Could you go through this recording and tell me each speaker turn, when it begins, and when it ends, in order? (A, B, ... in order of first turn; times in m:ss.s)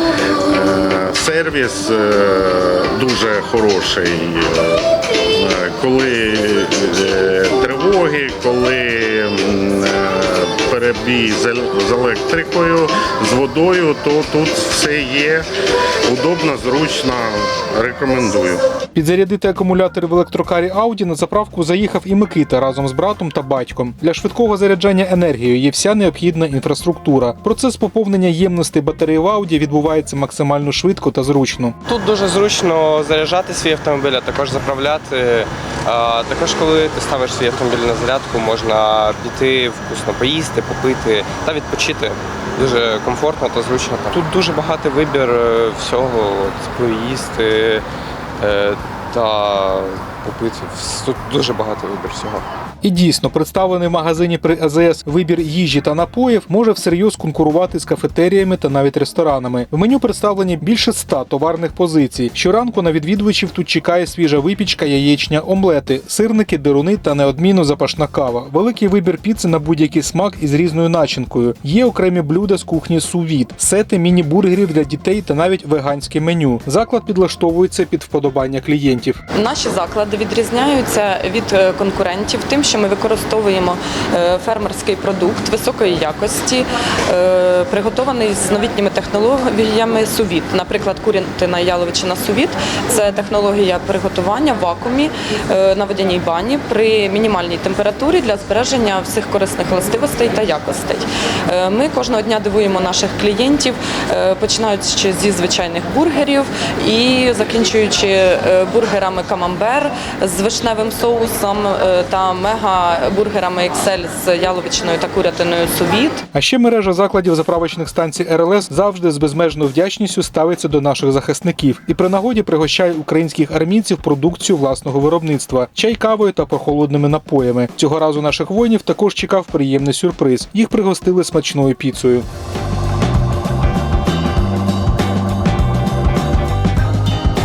0:00.5-0:15.5 A
0:16.0-0:18.6 A
0:18.9-0:31.8 B
0:31.9-0:47.8 C
0:48.4-0:52.5 C
0:52.8-1:19.2 B
1:19.3-1:56.2 D
1:56.3-2:12.2 B